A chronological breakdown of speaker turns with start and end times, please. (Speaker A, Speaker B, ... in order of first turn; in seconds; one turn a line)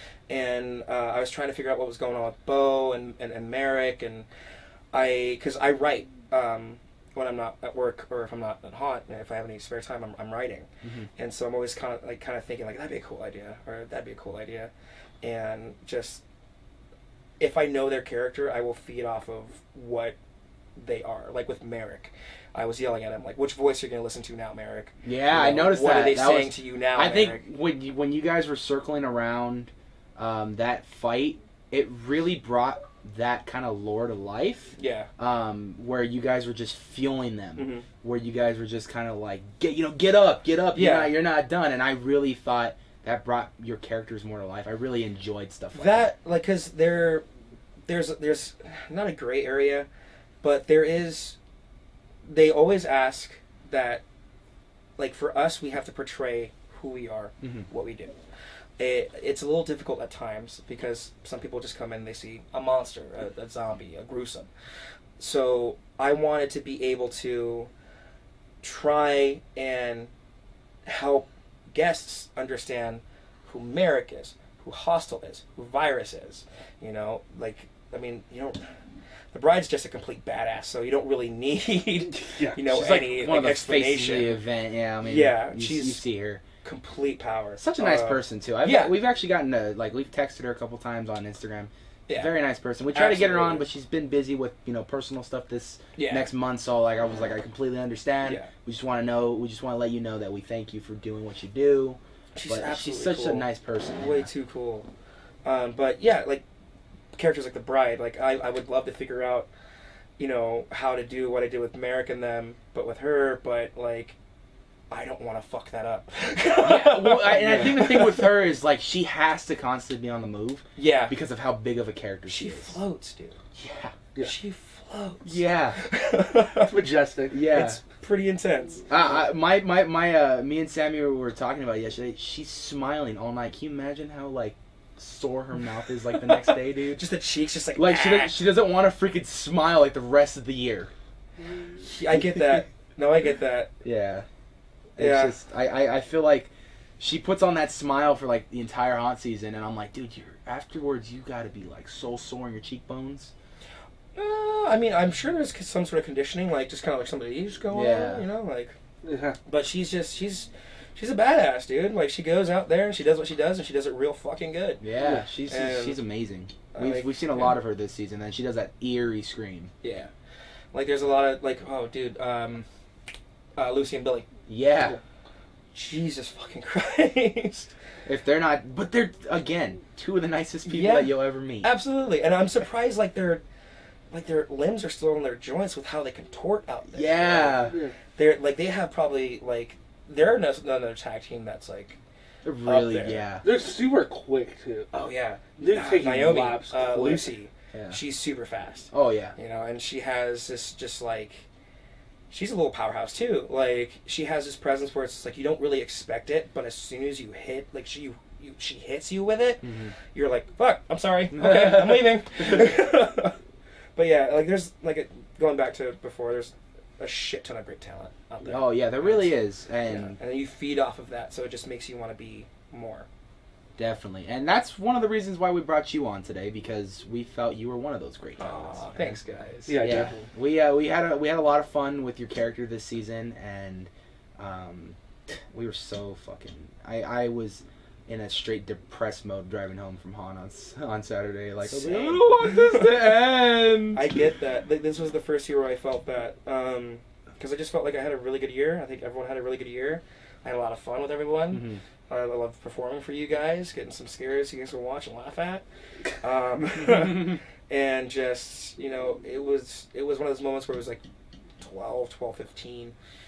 Speaker A: 0.3-4.2
Speaker A: 4.9-14.7
Speaker B: 10.8-11.1
Speaker A: 15.2-16.2
Speaker A: 17.4-20.1
Speaker A: 20.8-27.4
Speaker B: 25.0-46.0
Speaker A: 34.8-35.1
Speaker A: 37.5-37.9
Speaker A: 40.7-41.1
Speaker A: 45.7-47.2
Speaker A: 47.9-49.9
Speaker A: 50.4-51.4
Speaker A: 52.2-54.0
Speaker A: 55.0-58.1
Speaker B: 57.4-57.7
Speaker A: 58.8-64.5
Speaker A: 65.2-67.7
Speaker A: 68.6-70.1
Speaker A: 70.8-78.6
Speaker A: 79.3-84.4
Speaker C: 82.2-82.6
Speaker B: 82.7-86.4
Speaker A: 85.0-86.0
Speaker A: 86.6-89.0
Speaker B: 87.6-104.3
Speaker A: 92.9-93.7
Speaker A: 96.0-96.3
Speaker A: 98.2-98.5
Speaker A: 102.3-104.9
Speaker A: 105.4-106.4
Speaker A: 107.1-109.5
Speaker A: 110.2-114.2
Speaker A: 114.9-118.3
Speaker B: 116.6-122.8
Speaker C: 117.4-117.8
Speaker A: 120.8-121.1
Speaker A: 122.3-123.4
Speaker B: 123.5-123.9
Speaker A: 124.2-126.7
Speaker B: 125.2-125.8
Speaker C: 126.6-127.4
Speaker B: 127.3-127.8
Speaker A: 127.5-128.8
Speaker B: 128.9-137.1
Speaker A: 136.2-138.4
Speaker B: 137.7-140.9
Speaker A: 141.8-143.7
Speaker B: 143.8-144.2
Speaker A: 145.0-145.3
Speaker B: 145.0-153.3
Speaker A: 154.1-158.8
Speaker B: 157.7-158.2
Speaker C: 159.0-159.4
Speaker A: 159.4-164.8
Speaker B: 164.8-169.7
Speaker A: 165.5-166.0
Speaker A: 166.7-167.5
Speaker A: 169.8-170.1
Speaker A: 170.7-172.7
Speaker A: 173.6-174.3
Speaker B: 174.5-174.9
Speaker A: 175.7-177.7
Speaker B: 178.1-181.7
Speaker A: 180.6-183.4
Speaker A: 184.1-192.0
Speaker B: 186.9-187.8
Speaker B: 192.4-193.4
Speaker A: 192.6-193.2
Speaker C: 193.4-194.9
Speaker A: 194.9-201.4
Speaker C: 195.6-197.3
Speaker B: 197.7-198.0
Speaker B: 198.9-199.3
Speaker A: 202.3-213.3
Speaker B: 209.6-209.9
Speaker B: 211.3-212.1
Speaker A: 213.9-223.1
Speaker B: 218.4-220.2
Speaker B: 223.8-229.2
Speaker A: 228.4-229.8
Speaker C: 229.7-230.3
Speaker B: 229.8-235.0
Speaker B: 235.5-244.0
Speaker A: 241.6-243.1
Speaker A: 243.9-255.6
Speaker B: 251.5-251.8
Speaker A: 256.2-261.0
Speaker A: 261.6-262.9